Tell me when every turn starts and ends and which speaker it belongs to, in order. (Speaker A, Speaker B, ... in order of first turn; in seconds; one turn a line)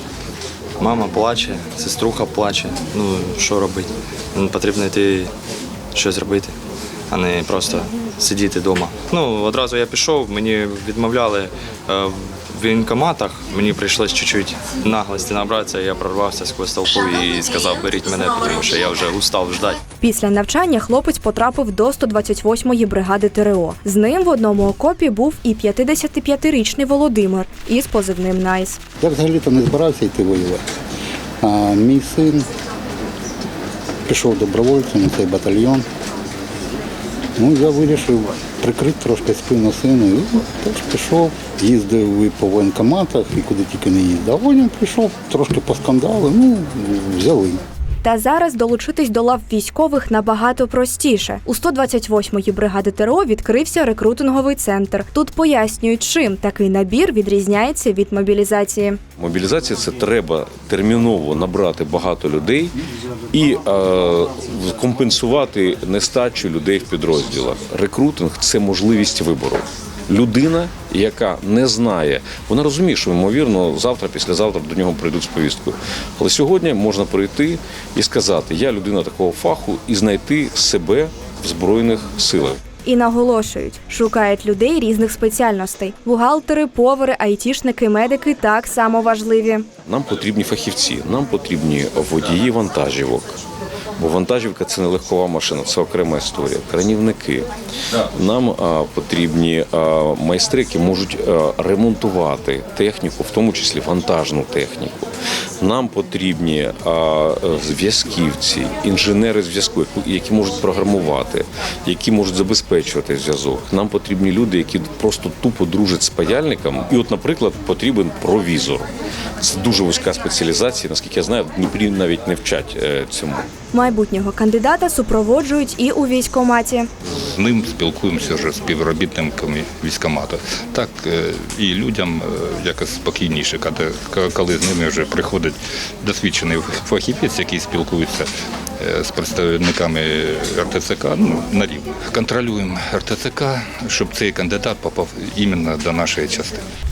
Speaker A: 0.8-5.3
Speaker A: 5.9-6.5
Speaker A: 7.1-19.8
Speaker B: 20.0-28.8
Speaker C: 29.0-30.6
Speaker C: 31.4-32.4
Speaker C: 34.1-35.9
Speaker C: 37.4-47.6
Speaker B: 48.0-59.0
Speaker D: 59.2-62.8
Speaker D: 63.3-82.6
Speaker B: 82.8-89.7
Speaker D: 89.8-93.3
Speaker D: 94.0-123.5
Speaker B: 123.7-126.9
Speaker E: 127.1-138.3
Speaker E: 138.8-146.7